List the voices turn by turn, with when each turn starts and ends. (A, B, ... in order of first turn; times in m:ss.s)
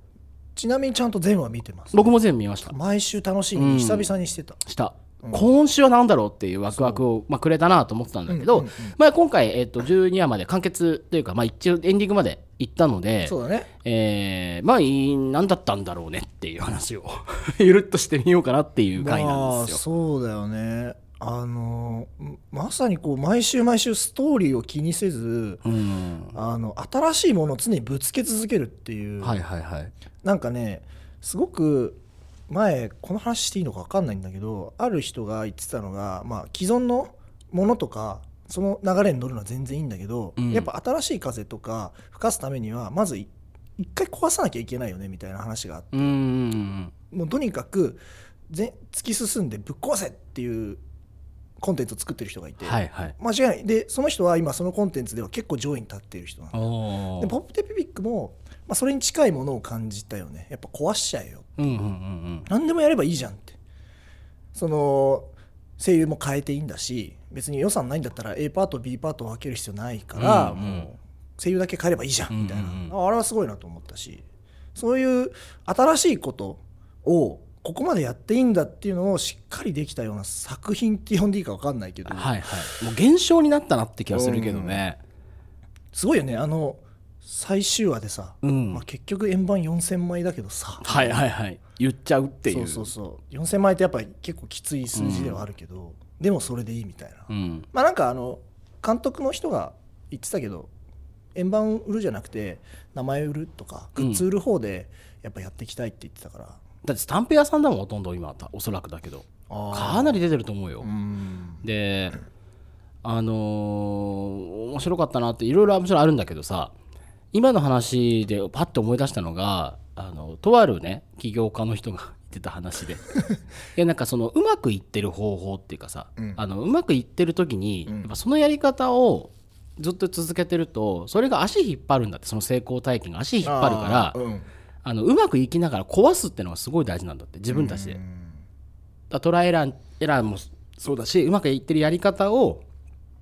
0:00.6-0:02.1 A
0:01.9-0:02.8 B
0:02.7-0:04.6 A
0:03.6-0:04.1 B
0:04.7-0:19.8 B
0:06.7-0:07.0 A
0:08.3-0:09.0 A
0:13.2-0:13.7 A
0:19.0-0:25.6 A
0:25.6-0:26.4 B
0:26.4-0:29.4 A
0:29.2-0:29.9 B
0:30.2-0:46.1 A
0:40.4-0:40.7 B
0:45.9-0:46.9 B
0:47.1-0:50.8 A
0:51.6-0:56.7 A
0:52.6-0:53.2 B
0:56.5-0:57.3 B
0:57.2-1:01.7 A
1:01.6-1:02.5 B
1:02.5-1:03.6 A
1:04.6-1:14.2 A
1:10.2-1:10.9 B
1:12.3-1:12.9 B
1:14.8-1:22.4 A
1:22.1-1:25.0 B
1:24.1-1:24.8 A
1:25.9-1:31.2 A
1:28.4-1:28.8 B
1:30.8-1:32.9 B
1:32.5-1:40.7 A
1:35.0-1:35.4 B
1:37.3-1:37.7 B
1:41.4-1:46.6 A
1:44.0-1:44.2 B
1:46.8-1:50.9 B
1:49.5-1:50.2 A
1:50.8-1:51.6 A
1:51.6-1:52.2 B
1:53.0-1:56.7 B
1:57.3-2:03.1 B
2:03.8-2:14.2 B
2:13.4-2:14.5 A
2:14.8-2:18.0 B
2:17.5-2:18.4 A
2:19.1-2:22.6 B